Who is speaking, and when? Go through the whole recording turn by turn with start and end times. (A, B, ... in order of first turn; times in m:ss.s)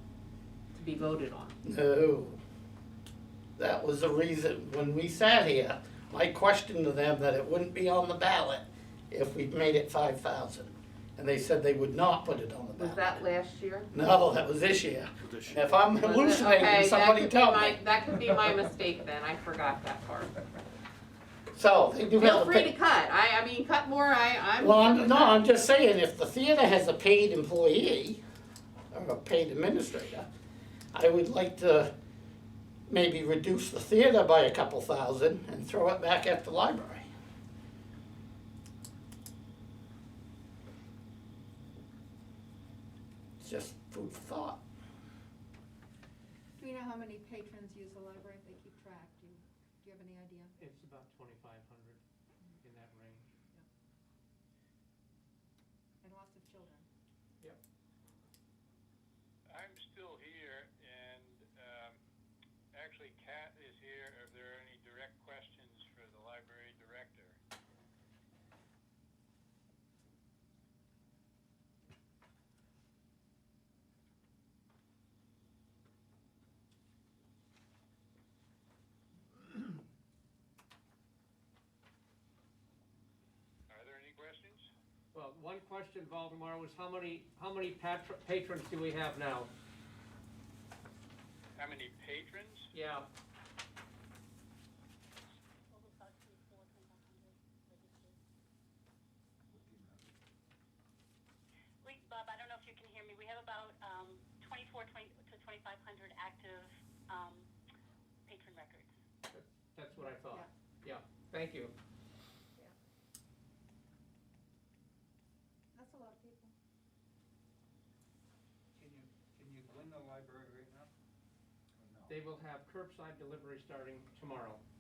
0:00.7-0:01.5 A
0:01.6-0:02.4 B
0:03.6-0:13.2 B
0:12.8-0:13.9 A
0:13.9-0:17.8 B
0:16.0-0:20.3 A
0:21.5-0:22.7 B
0:22.2-0:25.4 A
0:24.6-0:28.2 B
0:28.9-0:30.3 B
0:30.9-0:31.9 B
0:32.9-0:37.1 B
0:43.4-0:44.6 B
0:46.6-0:50.5 C
0:50.6-0:52.0 D
0:52.6-0:53.2 D
0:56.0-0:56.9 C
0:59.5-1:02.0 E
1:02.7-1:07.4 E
1:23.7-1:24.7 E
1:25.1-1:29.5 D
1:31.6-1:32.7 E
1:32.7-1:33.0 D
1:35.7-1:38.2 F
1:39.5-1:40.1 G
1:41.8-1:47.4 F
1:48.2-1:48.9 F
1:49.3-1:51.7 D
1:50.0-1:50.5 C
1:55.7-1:56.5 C
1:58.7-2:00.9 G
2:01.8-2:02.2 G
2:02.1-2:04.6 D